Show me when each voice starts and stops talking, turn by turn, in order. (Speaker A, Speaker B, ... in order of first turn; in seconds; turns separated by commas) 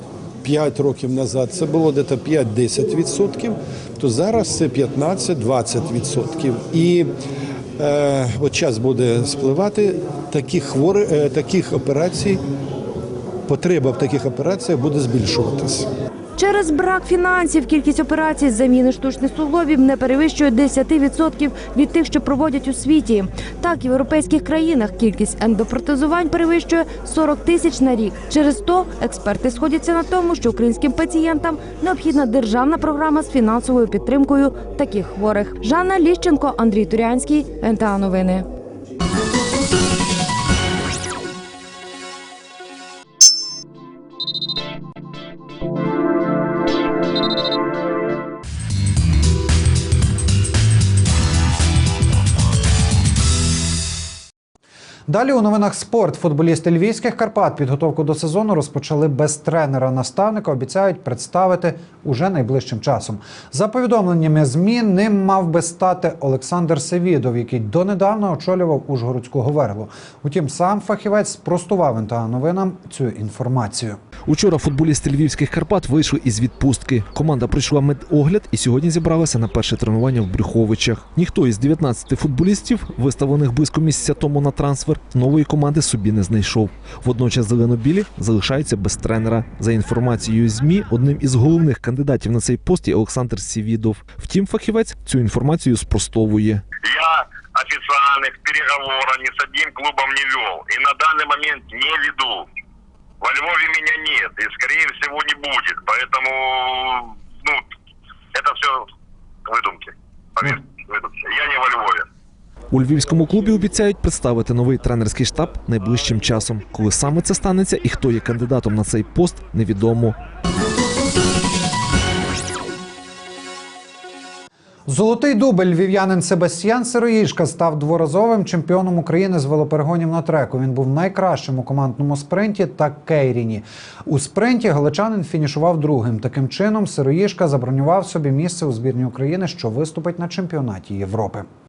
Speaker A: 0.4-7.1, Speaker A: 7.8-12.4, Speaker A: 13.5-15.9, Speaker B: 16.4-38.5, Speaker C: 55.1-74.0, Speaker D: 74.2-96.6, Speaker E: 96.8-102.5, Speaker E: 103.2-107.6, Speaker E: 108.3-108.8, Speaker E: 109.5-112.0, Speaker D: 112.7-120.2, Speaker C: 124.9-141.4